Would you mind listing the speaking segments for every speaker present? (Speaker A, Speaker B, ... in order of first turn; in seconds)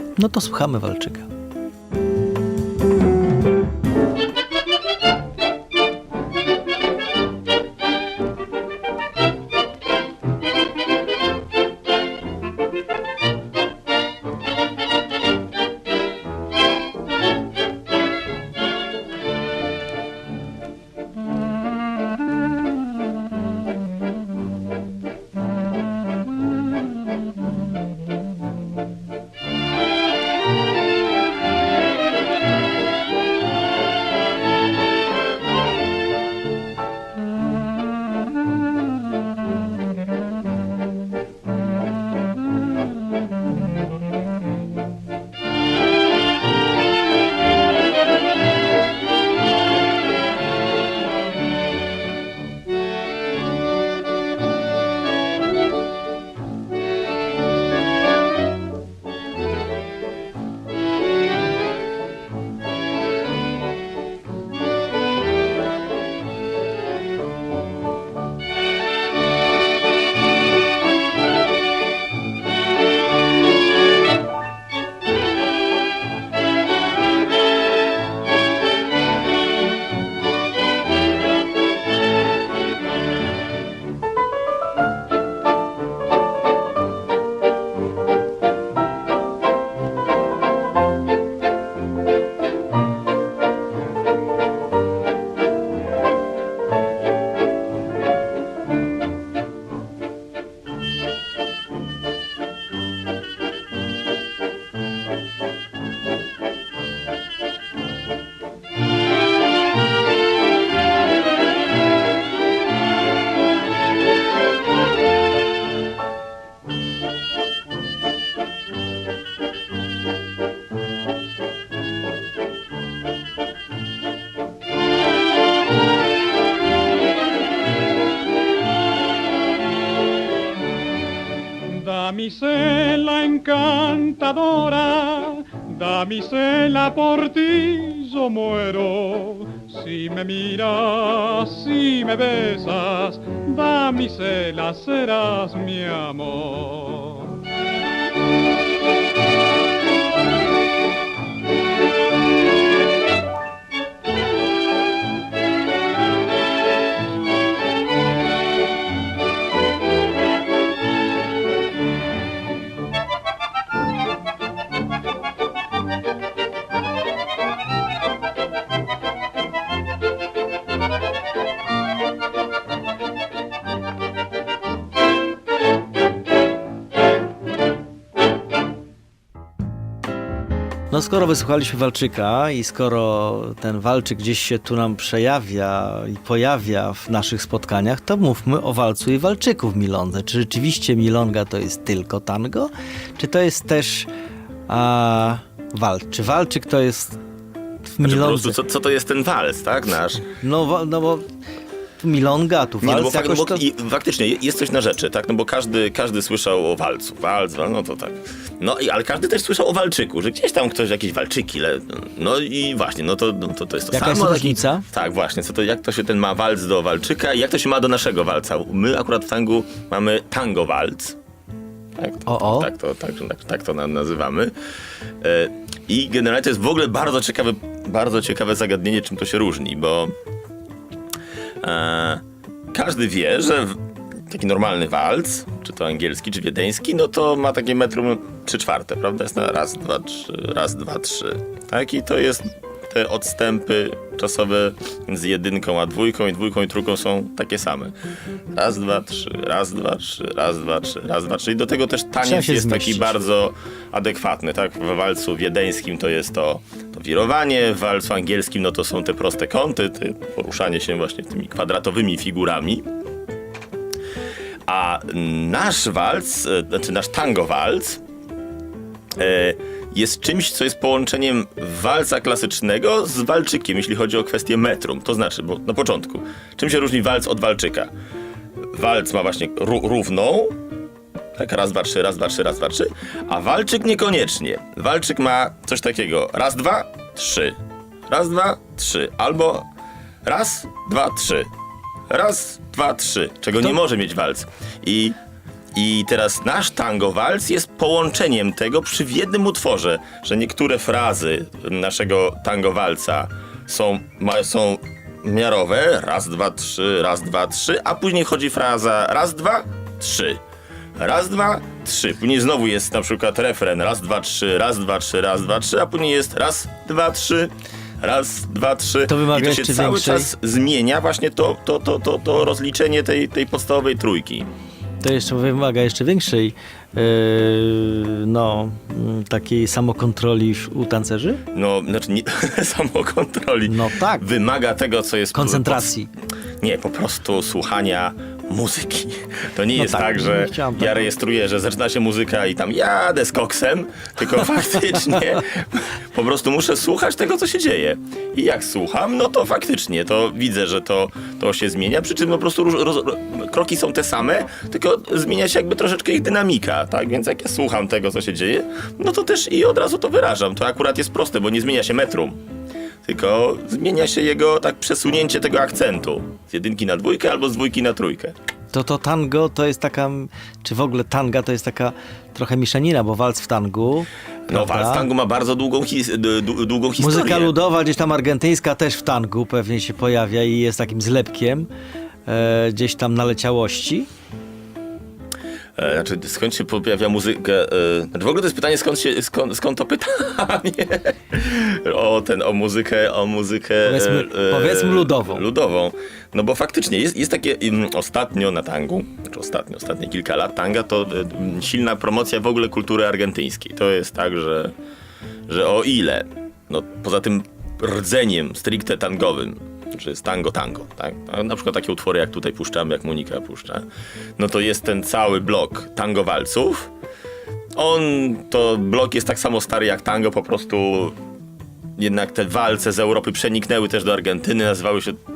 Speaker A: 0.2-1.3, 180.9-194.1, 194.7-197.2, 197.9-198.6, 200.3-201.2, 202.0-203.6, 213.9-214.8, 222.3-222.7, 252.2-253.2, 319.1-320.3, 325.0-331.4, 333.7-334.3, 335.3-336.1, 339.8-341.1, 368.7-375.1, 377.0-381.7, 382.3-384.1, 393.8-395.5
Speaker B: 131.7-147.4
Speaker C: 198.0-200.2, 202.8-221.2, 222.0-224.5, 225.2-230.2, 231.6-248.0, 248.5-262.9, 264.7-268.0, 269.1-277.9, 278.6-280.6, 281.4-287.6, 288.1-289.7, 290.2-291.5, 292.1-295.2, 295.8-310.4, 311.0-324.5, 331.5-335.9, 336.6-362.4, 363.0-368.4, 374.5-377.5, 385.8-404.7, 405.5-416.9, 417.8-421.2, 422.0-425.2